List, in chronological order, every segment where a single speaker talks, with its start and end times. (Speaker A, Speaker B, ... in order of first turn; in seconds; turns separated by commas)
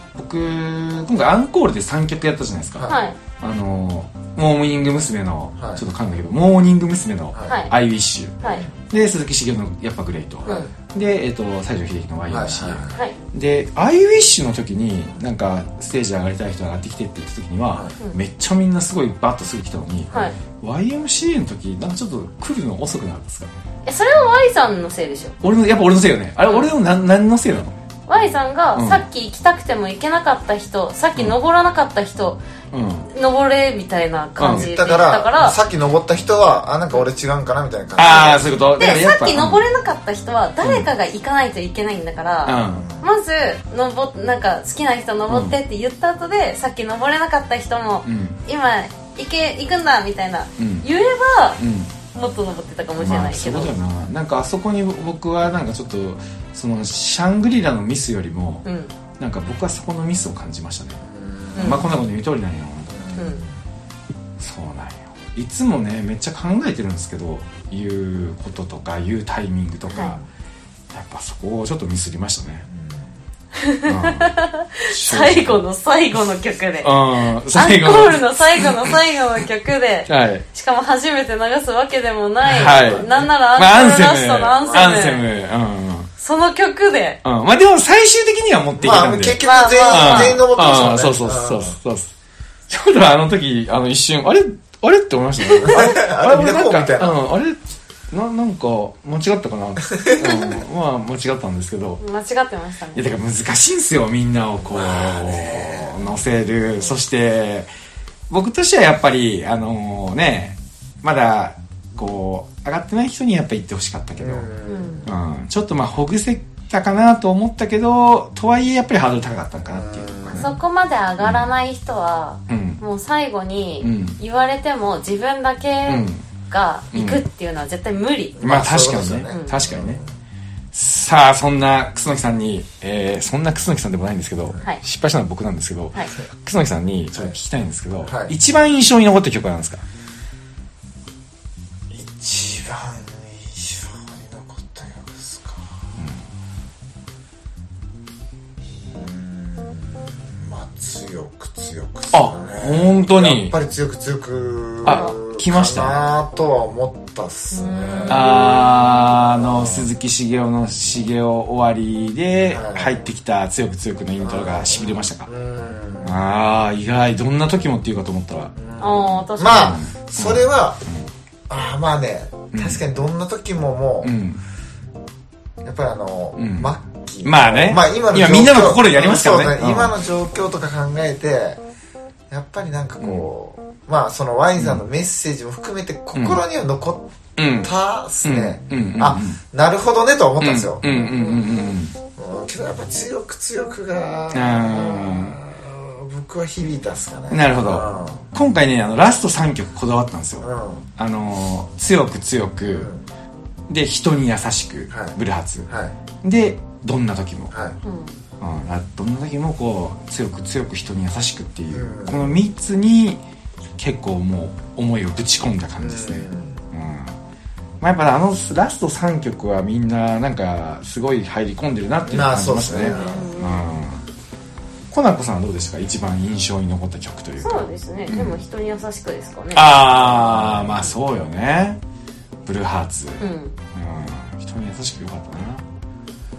Speaker A: 0.1-8.3, Speaker B: 2.8-3.2, Speaker C: 5.6-5.8, Speaker C: 7.3-7.6, Speaker B: 7.5-7.7, Speaker C: 8.4-8.7, Speaker A: 8.9-23.5, Speaker C: 12.3-13.0, Speaker B: 23.9-25.4, Speaker A: 25.4-27.8, Speaker B: 28.1-32.4, Speaker A: 28.7-29.0, Speaker A: 32.7-33.1, Speaker B: 33.1-35.6, Speaker A: 34.4-34.7, Speaker C: 34.5-38.6, Speaker A: 38.0-39.6, Speaker B: 38.8-51.6, Speaker A: 40.6-40.9, Speaker A: 42.4-42.9, Speaker C: 42.7-43.0, Speaker A: 45.3-45.5, Speaker A: 48.0-48.4, Speaker A: 50.6-50.9, Speaker A: 51.6-51.9, Speaker B: 52.1-53.7, Speaker A: 53.0-58.6, Speaker B: 58.6-58.9, Speaker A: 59.2-61.0, Speaker C: 61.0-61.9, Speaker B: 61.5-61.9, Speaker A: 61.6-62.9, Speaker C: 62.9-63.5, Speaker B: 63.1-63.4, Speaker A: 64.4-70.2, Speaker C: 69.9-70.2, Speaker B: 69.9-70.2, Speaker A: 70.9-72.7, Speaker C: 72.7-73.1, Speaker B: 73.5-85.3, Speaker A: 73.8-74.3, Speaker A: 74.9-75.6, Speaker A: 76.8-78.9, Speaker A: 80.1-80.4, Speaker A: 82.4-86.1, Speaker C: 82.5-83.2, Speaker C: 84.6-84.9, Speaker B: 86.2-87.2, Speaker A: 87.2-92.1, Speaker C: 88.8-91.8, Speaker B: 89.4-90.4, Speaker A: 92.7-102.0, Speaker B: 95.4-95.7, Speaker C: 95.6-97.2, Speaker C: 99.9-100.4, Speaker B: 102.0-103.1, Speaker A: 102.9-107.7, Speaker C: 104.7-106.2, Speaker A: 108.3-114.5, Speaker C: 114.2-115.1, Speaker B: 114.6-115.0, Speaker A: 115.0-120.5, Speaker C: 119.7-120.5, Speaker B: 120.4-128.4, Speaker A: 121.2-121.5, Speaker A: 122.5-122.8, Speaker A: 123.8-124.2, Speaker A: 125.9-126.2, Speaker A: 126.9-127.2, Speaker C: 128.4-130.0, Speaker A: 128.4-130.0, Speaker B: 129.3-129.5, Speaker A: 130.7-139.8, Speaker C: 138.1-138.3, Speaker C: 141.9-145.7, Speaker C: 148.8-159.9, Speaker A: 152.1-153.5, Speaker A: 154.8-156.0, Speaker B: 154.9-155.1, Speaker B: 157.5-158.7, Speaker A: 158.1-165.3, Speaker C: 162.4-163.0, Speaker C: 164.2-166.2, Speaker A: 166.0-168.5, Speaker C: 168.6-170.8, Speaker B: 168.8-169.8, Speaker A: 169.5-171.1, Speaker C: 171.5-174.1, Speaker A: 172.5-172.8, Speaker A: 174.0-174.4, Speaker C: 175.6-181.6, Speaker A: 176.4-176.7, Speaker A: 177.2-179.9, Speaker C: 182.3-187.1, Speaker A: 183.0-183.3, Speaker A: 184.6-184.8, Speaker A: 186.1-186.4, Speaker A: 187.4-187.7, Speaker C: 187.6-191.2, Speaker A: 188.2-189.4, Speaker A: 190.4-191.9, Speaker B: 191.1-191.5, Speaker C: 192.2-198.3, Speaker A: 194.3-195.4, Speaker A: 197.3-200.5, Speaker C: 200.4-200.8, Speaker A: 201.0-202.9, Speaker C: 202.6-203.0, Speaker A: 203.7-205.7, Speaker C: 204.9-205.2, Speaker C: 205.7-205.9, Speaker A: 206.2-207.5, Speaker C: 207.5-207.8, Speaker B: 207.8-208.2, Speaker A: 208.4-213.2, Speaker C: 211.7-212.4, Speaker A: 213.8-217.2, Speaker C: 215.8-216.6, Speaker A: 217.8-224.0, Speaker C: 222.1-223.3, Speaker B: 222.8-223.7, Speaker A: 224.9-228.4, Speaker B: 227.4-230.8, Speaker A: 229.5-231.8, Speaker C: 230.2-230.8, Speaker A: 232.4-235.6, Speaker B: 233.2-233.6